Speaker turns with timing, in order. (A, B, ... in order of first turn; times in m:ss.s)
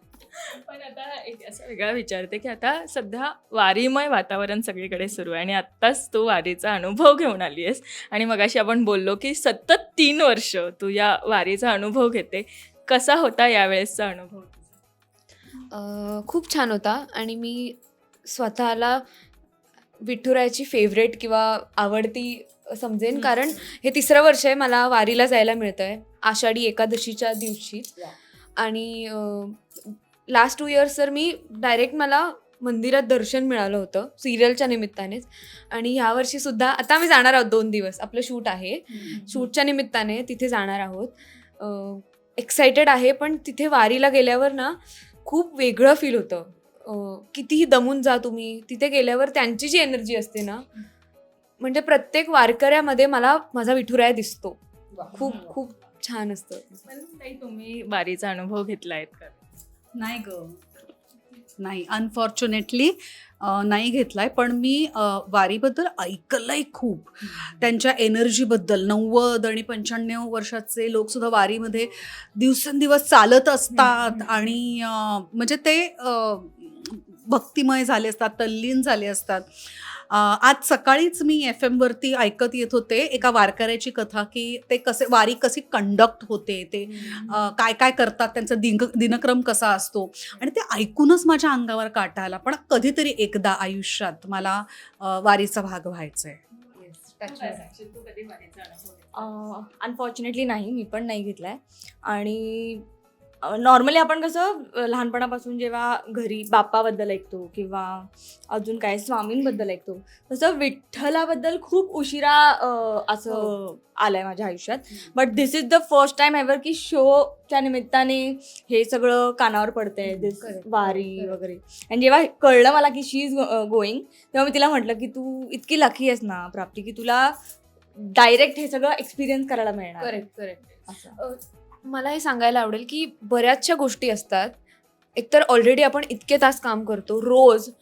0:00.4-0:14.7 A
0:15.7-0:19.0 B
0:20.0-0:50.7 B
0:51.6-0:56.8 B
0:55.1-0:55.5 C
0:55.2-0:55.5 A
0:56.8-0:59.4 A
1:00.0-1:00.6 C
1:01.6-1:36.4 C
1:13.7-1:14.3 B
1:26.9-1:27.4 B
1:36.7-1:37.6 B
1:37.2-1:39.3 A
1:39.1-1:42.9 D
1:43.4-2:07.3 D
1:53.2-1:53.5 B
2:00.0-2:01.4 B
2:07.9-2:10.2 D
2:10.0-2:14.6 B
2:10.9-2:11.2 D
2:15.2-2:17.7 B